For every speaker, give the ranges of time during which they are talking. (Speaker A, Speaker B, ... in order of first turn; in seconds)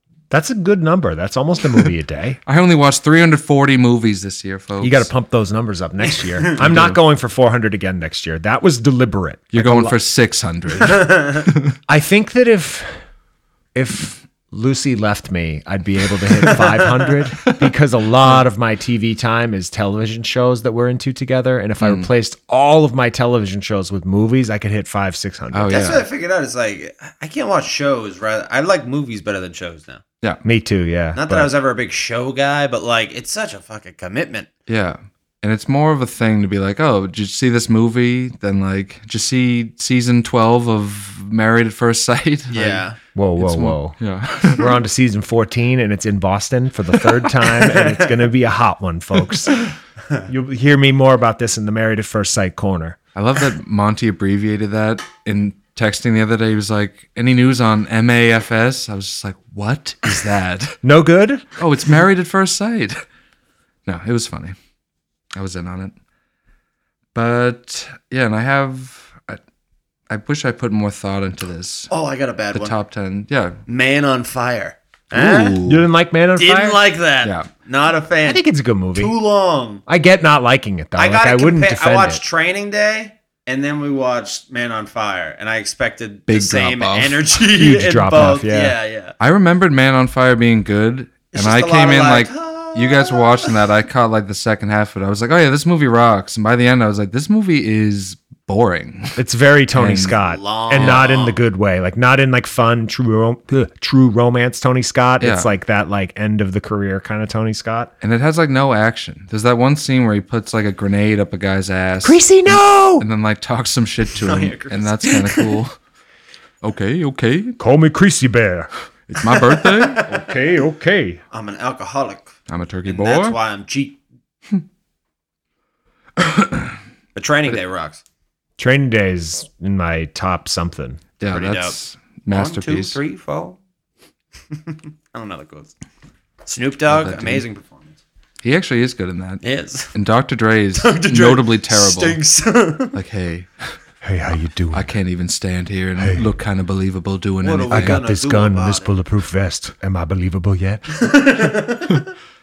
Speaker A: 0.3-2.4, 4.8-10.0, 11.9-12.9, 13.8-25.8, 30.4-31.5, 43.1-44.0, 44.6-49.7, 50.3-53.0, 60.8-61.5, 75.6-76.8, 78.2-79.2, 79.9-82.2, 87.5-88.8, 99.2-107.9, 112.0-113.1, 117.6-118.7, 120.2-121.2, 128.6-131.0, 144.0-144.9, 146.0-146.3, 147.7-151.1
Speaker B: 2.5-5.1, 6.6-7.0, 9.5-11.8, 21.8-22.1, 25.5-26.1, 34.7-42.9, 43.4-44.7, 53.1-60.8, 61.6-63.0, 63.9-64.5, 65.3-65.9, 67.2-69.4, 70.1-71.9, 72.5-73.6, 75.1-75.9, 77.2-77.5, 86.3-87.3, 89.2-99.2, 99.8-100.2, 100.7-101.0, 105.2-105.5, 108.0-115.8, 116.6-117.6, 119.1-120.1, 122.5-123.4, 126.2-126.8, 131.2-133.0, 136.9-137.4, 138.4-142.2, 142.9-143.8, 144.7-148.0
Speaker C: 10.8-11.4, 25.7-30.0, 31.1-34.5, 42.5-43.0, 47.4-48.2, 71.9-72.8, 73.7-75.6, 76.4-78.4, 79.0-79.8, 81.0-89.2, 91.3-93.6, 100.2-101.4, 114.1-115.6, 119.2-120.3, 121.3-122.3, 122.9-124.0, 127.2-128.0, 131.3-131.8, 132.3-133.6, 134.6-135.7, 136.4-138.0, 139.4-139.9, 140.8-143.0, 147.4-148.9, 150.9-152.1